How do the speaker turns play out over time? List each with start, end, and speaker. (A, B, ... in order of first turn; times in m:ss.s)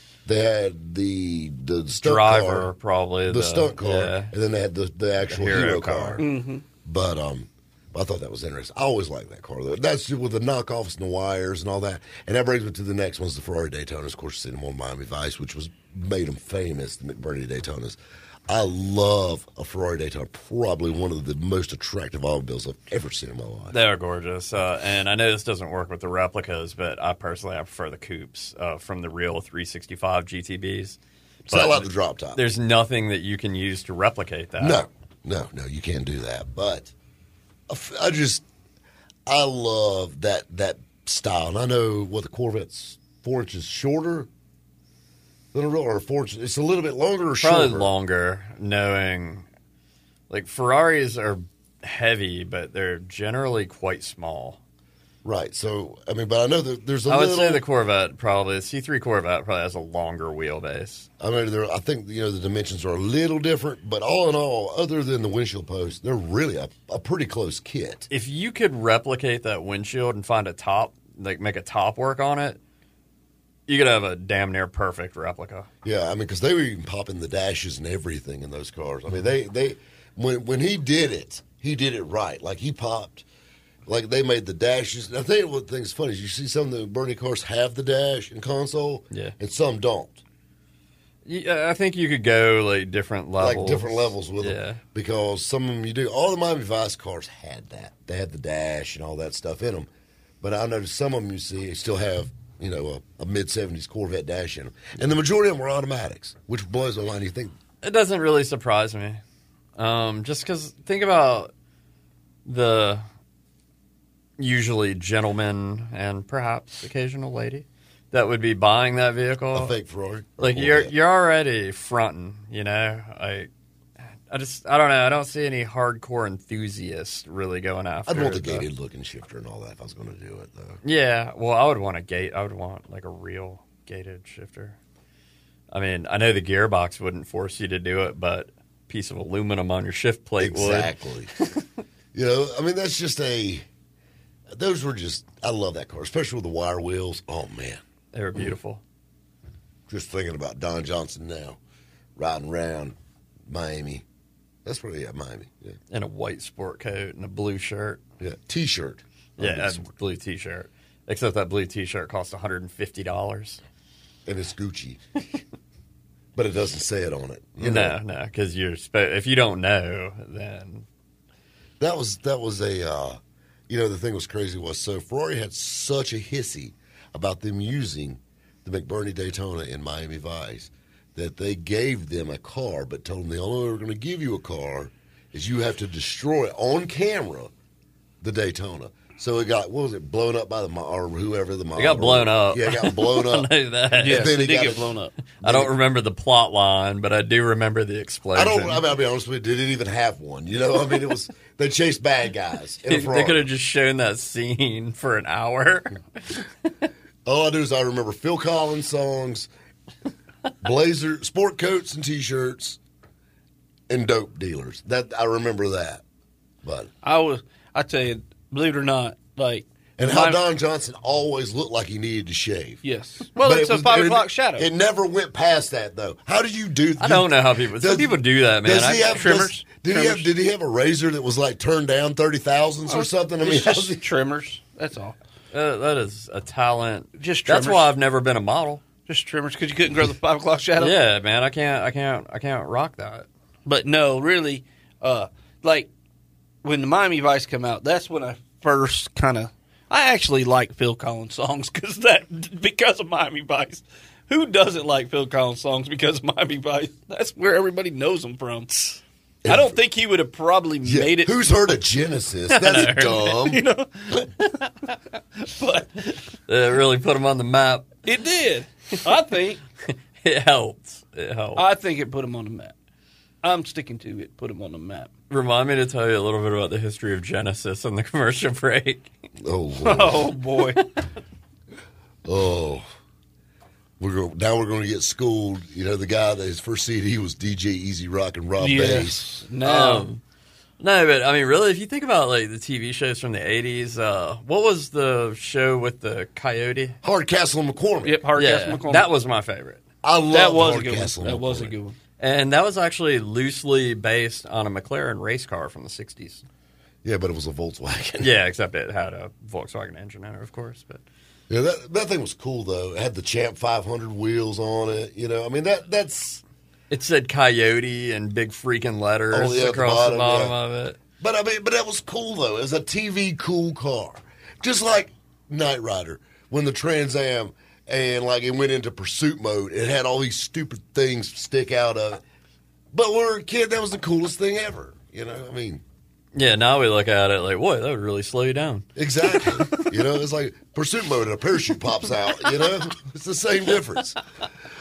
0:00.3-0:02.7 A
0:02.0-0:04.3 B
0:03.3-0:06.2 A
0:05.3-0:06.3 B
0:06.2-0:06.6 C
0:06.8-0:23.8 A
0:23.7-0:34.9 B
0:31.5-0:32.4 A
0:34.6-0:36.9 A
0:37.7-0:38.4 A
0:39.3-0:44.3 A
0:45.5-0:47.9 A
0:47.4-0:49.5 B
0:50.3-0:54.6 B
0:55.2-0:57.6 A
0:57.1-1:01.1 B
1:01.2-1:08.1 A
1:08.1-1:12.6 B
1:13.7-1:15.7 B
1:15.8-1:23.3 A
1:23.9-1:30.2 A
1:31.3-1:34.8 B
1:33.4-1:39.9 A
1:40.4-1:47.6 A
1:47.8-1:49.2 B
1:49.8-1:51.5 B
1:52.4-1:53.1 B
1:54.4-1:59.7 B
1:59.5-2:00.9 A
2:00.4-2:03.5 B
2:04.3-2:08.7 B
2:08.1-2:10.8 A
2:10.8-2:14.8 B
2:15.7-2:21.6 B
2:20.4-2:21.3 A
2:22.1-2:23.7 A
2:24.5-2:27.8 A
2:28.1-2:28.8 B
2:29.9-2:31.6 A
2:32.2-2:33.0 A
2:33.5-2:34.0 A
2:34.6-2:35.8 A
2:35.9-2:38.0 B
2:38.2-2:39.9 A
2:39.4-2:43.6 B
2:44.3-2:45.0 A
2:46.4-2:48.0 A
2:47.6-2:50.9 B
2:51.8-3:07.5 A
3:08.2-3:13.5 A
3:11.8-3:14.4 B
3:14.0-3:15.8 A
3:14.0-3:15.2 C
3:15.4-3:18.9 B
3:18.3-3:23.4 A
3:22.9-3:26.7 B
3:27.2-3:29.5 A
3:30.6-3:32.8 A
3:33.9-3:36.0 A
3:36.6-3:36.9 A
3:37.0-3:40.4 C
3:40.0-3:42.8 A
3:42.8-3:44.7 C
3:43.4-3:54.0 A
3:47.0-3:49.2 B
3:49.1-3:50.3 C
3:52.9-3:55.2 C
3:55.5-3:58.8 B
3:57.2-3:57.9 C
3:59.1-4:01.0 C
4:00.8-4:03.3 B
4:03.7-4:05.9 C
4:06.6-4:21.8 C
4:19.4-4:19.8 A
4:20.8-4:23.6 A
4:22.5-4:23.4 B
4:22.6-4:24.6 C
4:25.4-4:26.2 C
4:26.5-4:28.0 B
4:28.1-4:29.6 C
4:29.9-4:31.6 B
4:31.6-4:32.8 C
4:33.4-4:35.1 C
4:35.3-4:39.1 B
4:39.4-4:40.3 A
4:39.8-4:40.9 C
4:40.6-4:40.9 B
4:42.2-4:42.9 A
4:44.0-4:49.2 A
4:48.6-4:50.1 C
4:49.6-4:50.2 B
4:50.8-4:57.0 B
4:57.0-4:58.3 A
4:58.0-4:59.1 C
4:58.4-4:59.8 B
5:00.0-5:01.8 A
5:00.3-5:02.0 C
5:02.2-5:06.4 B
5:07.0-5:08.3 A
5:08.2-5:11.0 B
5:11.5-5:16.4 A
5:16.9-5:21.0 B
5:19.3-5:20.6 A
5:21.2-5:32.2 A
5:32.9-5:35.8 A
5:36.3-5:39.9 B
5:39.0-5:44.2 A